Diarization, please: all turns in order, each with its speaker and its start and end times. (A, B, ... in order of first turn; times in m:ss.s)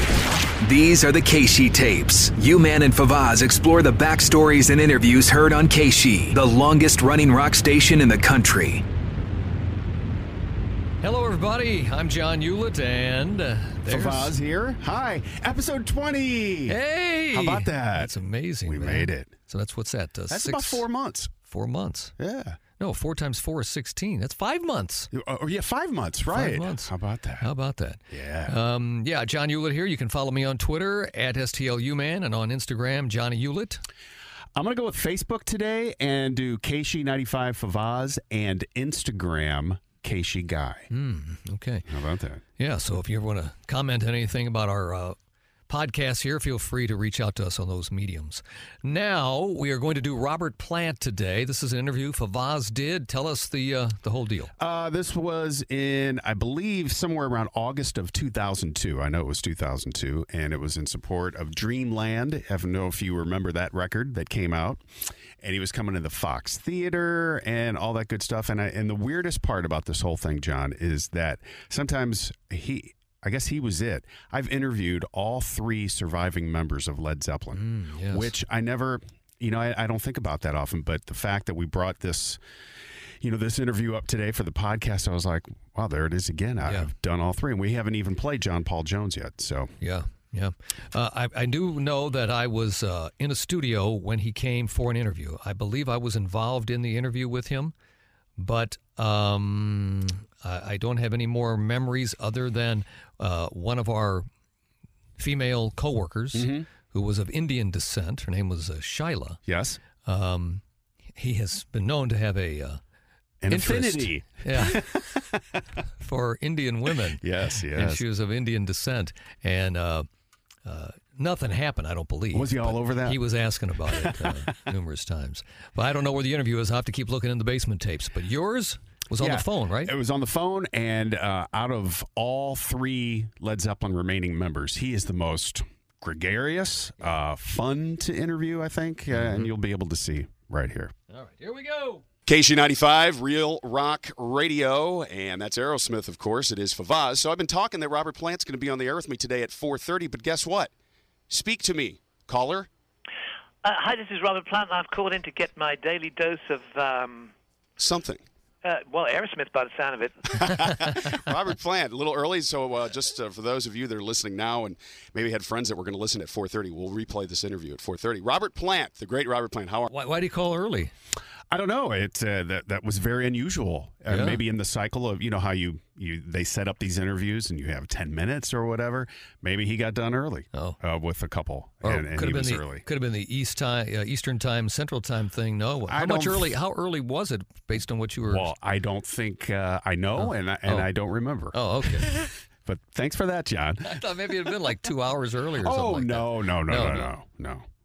0:00.6-0:08.8 A
0:11.0-0:14.3 B
0:13.9-0:16.8 C
0:16.7-0:20.9 B
0:17.3-0:18.1 C
0:18.7-0:19.4 C
0:20.3-0:21.3 C
0:21.5-0:22.1 B
0:22.2-0:22.6 C
0:22.8-0:25.1 B
0:25.1-0:27.5 C
0:26.3-0:33.8 B
0:28.1-0:28.6 C
0:34.6-0:40.9 C
0:40.9-0:41.9 B
0:41.9-0:42.4 C
0:42.6-0:45.2 B
0:45.7-0:54.5 B
0:54.6-1:04.8 C
1:05.4-1:22.4 C
1:17.6-1:18.3 B
1:23.2-1:29.7 C
1:26.7-1:26.9 B
1:29.8-1:37.7 B
1:38.4-1:44.3 B
1:45.2-1:49.4 B
1:46.3-1:46.7 C
1:49.5-1:49.8 C
1:50.0-1:50.6 B
1:51.2-1:52.8 B
1:53.4-1:55.6 C
1:53.5-1:55.0 B
1:56.0-2:00.1 B
1:57.2-1:58.0 C
2:00.6-2:09.9 B
2:02.3-2:03.2 C
2:03.9-2:04.5 C
2:09.2-2:20.9 C
2:19.1-2:19.5 B
2:21.1-2:22.0 B
2:22.3-2:30.7 D
2:31.3-2:32.7 D
2:33.6-2:37.3 E
2:37.8-2:38.2 D
2:38.6-2:40.5 E
2:40.3-2:49.9 D
2:49.9-2:50.9 B
2:51.5-3:02.8 C
2:54.1-2:54.4 B
3:01.8-3:08.5 B
3:05.9-3:06.6 C
3:08.2-3:14.6 C
3:10.2-3:10.9 B
3:11.5-3:12.2 B
3:13.8-3:17.1 B
3:15.6-3:17.7 C